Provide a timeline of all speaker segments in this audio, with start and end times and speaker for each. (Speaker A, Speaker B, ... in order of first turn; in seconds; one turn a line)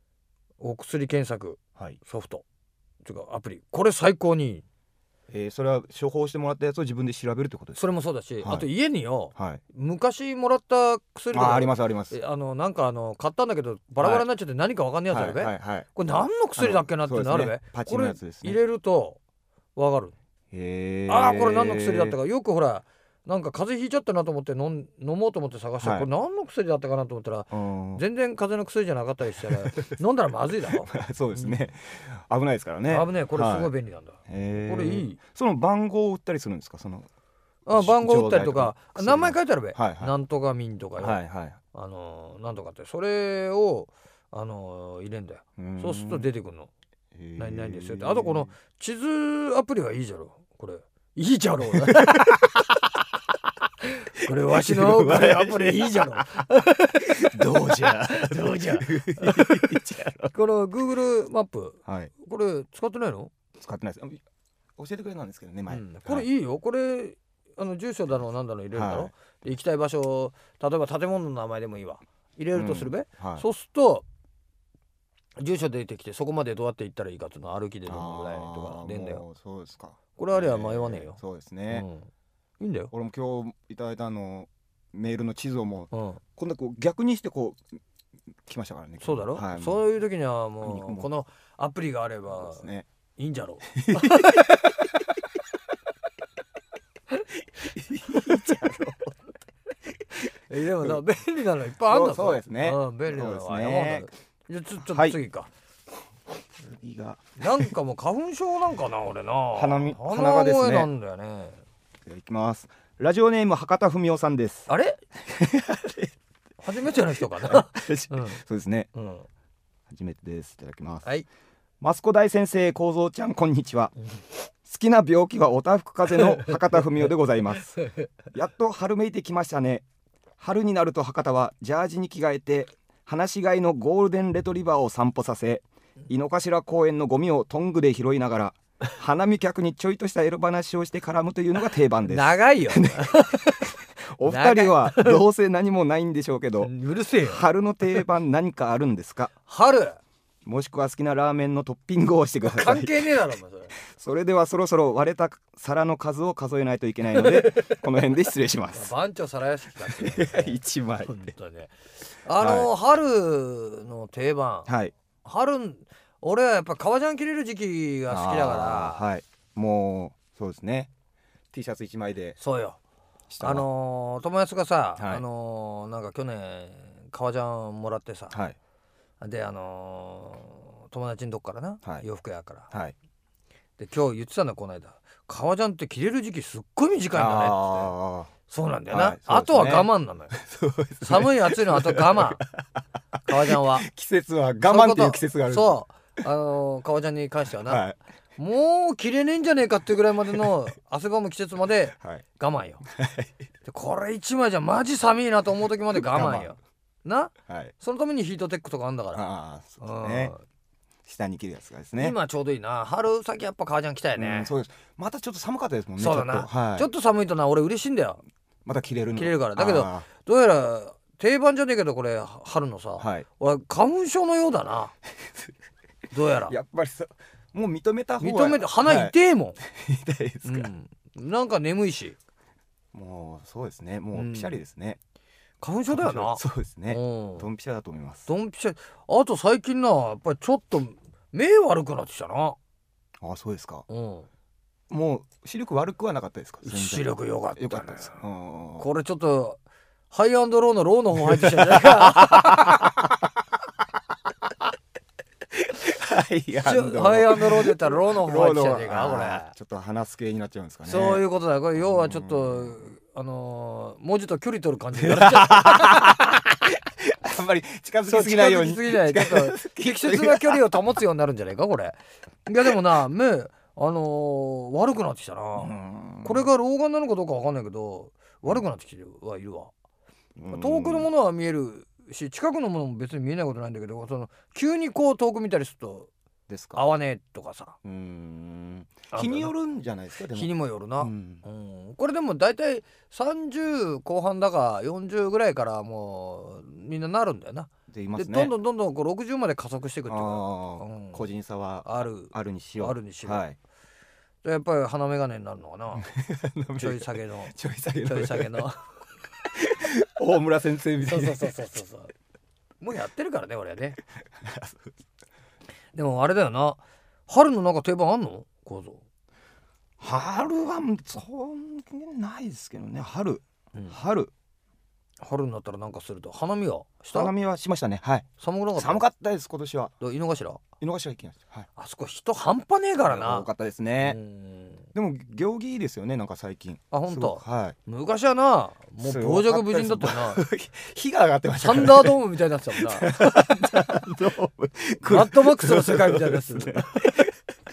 Speaker A: 0.6-2.4
Speaker A: 3.0-4.6
Speaker B: 5.3-7.8
Speaker A: 7.8-19.2
Speaker B: 8.4-8.7
Speaker B: 9.3-9.6
Speaker B: 11.3-12.2
Speaker B: 14.0-14.3
Speaker B: 15.1-15.9
Speaker B: 16.6-18.6
Speaker A: 19.7-20.1
Speaker B: 20.5-22.2
Speaker A: 21.1-31.6
Speaker B: 25.8-26.1
Speaker B: 27.5-28.0
Speaker B: 29.4-29.9
Speaker B: 30.7-33.7
Speaker A: 32.9-35.2
Speaker B: 34.3-37.1
Speaker A: 37.6-41.2
Speaker B: 37.7-40.1
Speaker B: 41.0-41.6
Speaker A: 41.7-46.7
Speaker B: 45.6-46.3
Speaker B: 47.1-48.5
Speaker A: 47.4-52.7
Speaker B: 52.0-52.4
Speaker A: 53.8-59.8
Speaker B: 54.5-56.2
Speaker B: 57.1-60.3
Speaker A: 60.3-63.3
Speaker B: 61.9-62.1
Speaker B: 63.6-64.2
Speaker B: 64.8-66.3
Speaker A: 65.7-74.0
Speaker B: 68.7-69.1
Speaker B: 72.5-73.5
Speaker A: 75.4-79.2
Speaker B: 77.9-81.8
Speaker A: 80.2-82.1
Speaker A: 82.6-82.9
Speaker B: 82.9-87.6
Speaker A: 85.9-86.2
Speaker B: 88.5-89.8
Speaker A: 89.0-94.9
Speaker B: 90.6-91.1
Speaker B: 92.3-92.8
Speaker B: 93.7-94.7
Speaker B: 97.6-99.1
Speaker A: 98.1-98.6
Speaker A: 100.4-105.5
Speaker B: 101.8-104.1
Speaker B: 104.8-105.2
Speaker B: 106.6-107.7
Speaker A: 107.4-111.6
Speaker B: 109.5-110.9
Speaker B: 112.0-114.7
Speaker A: 114.7-115.0
Speaker B: 115.2-116.1
Speaker A: 116.6-118.4
Speaker B: 117.0-118.9
Speaker A: 118.9-119.2
Speaker B: 119.9-121.1
Speaker B: 121.8-123.9
Speaker B: 124.6-129.8
Speaker A: 126.1-126.6
Speaker B: 130.4-143.3
Speaker A: 142.1-143.7
Speaker B: 144.1-149.3
Speaker A: 144.2-145.2
Speaker A: 146.6-147.4
Speaker A: 149.5-150.0
Speaker B: 150.4-153.1
Speaker A: 152.4-153.7
Speaker B: 153.8-158.9
Speaker A: 157.1-157.8
Speaker A: 158.7-164.7
Speaker B: 159.8-161.3
Speaker B: 162.4-162.7
Speaker B: 164.7-164.9
Speaker A: 165.2-169.1
Speaker B: 168.1-170.9
Speaker B: 171.5-172.4
Speaker A: 172.4-172.8
Speaker B: 173.3-173.7
Speaker A: 173.4-178.4
Speaker B: 175.0-175.2
Speaker B: 178.3-178.6
Speaker A: 179.2-182.7
Speaker A: 183.8-187.9
Speaker B: 187.1-188.3
Speaker A: 188.5-190.4
Speaker B: 188.9-192.6
Speaker A: 191.0-192.4
Speaker A: 193.2-193.9
Speaker B: 193.3-195.8
Speaker A: 194.6-197.8
Speaker B: 197.6-198.0
Speaker A: 198.4-202.8
Speaker B: 201.9-202.2
Speaker B: 202.9-203.3
Speaker A: 203.6-209.2
Speaker B: 205.9-206.6
Speaker B: 207.5-207.7
Speaker B: 209.1-210.3
Speaker A: 209.8-210.4
Speaker B: 211.0-212.2
Speaker A: 212.0-214.5
Speaker B: 214.2-216.9
Speaker A: 216.0-218.2
Speaker B: 218.7-220.1
Speaker A: 219.1-224.9
Speaker B: 223.0-223.2
Speaker A: 226.1-226.6
Speaker B: 226.5-230.7
Speaker A: 228.2-229.6
Speaker A: 230.4-232.2
Speaker B: 232.9-235.0
Speaker A: 234.1-234.6
Speaker A: 235.6-237.5
Speaker B: 235.9-238.3
Speaker A: 238.3-242.6
Speaker B: 243.2-243.8
Speaker A: 243.9-244.3
Speaker B: 244.9-248.9
Speaker A: 246.6-248.1
Speaker A: 248.8-252.9
Speaker B: 251.3-253.3
Speaker B: 255.5-261.2
Speaker A: 256.6-259.5
Speaker A: 260.8-266.3
Speaker B: 261.8-262.8
Speaker B: 264.9-270.8
Speaker A: 268.1-279.7
Speaker B: 275.6-276.5
Speaker B: 280.4-281.1
Speaker A: 280.5-286.1
Speaker B: 286.5-286.8
Speaker A: 286.7-287.8
Speaker B: 287.8-291.4
Speaker A: 289.1-289.5
Speaker A: 290.3-301.3
Speaker B: 297.9-298.5
Speaker B: 300.1-303.6
Speaker A: 301.8-303.4
Speaker A: 304.4-306.1
Speaker B: 306.0-308.7
Speaker A: 306.8-308.8
Speaker B: 309.5-311.6
Speaker A: 311.0-312.1
Speaker A: 312.8-314.0
Speaker B: 314.4-314.9
Speaker A: 315.9-319.0
Speaker B: 320.0-324.3
Speaker A: 325.2-327.3
Speaker B: 327.1-329.9
Speaker A: 328.4-329.0
Speaker A: 330.0-330.6
Speaker B: 330.8-331.7
Speaker A: 331.8-333.5
Speaker B: 333.1-334.2
Speaker A: 334.0-334.8
Speaker B: 334.9-337.7
Speaker A: 336.9-340.4
Speaker B: 339.0-342.2
Speaker A: 341.6-343.1
Speaker B: 342.7-347.3
Speaker A: 345.0-347.1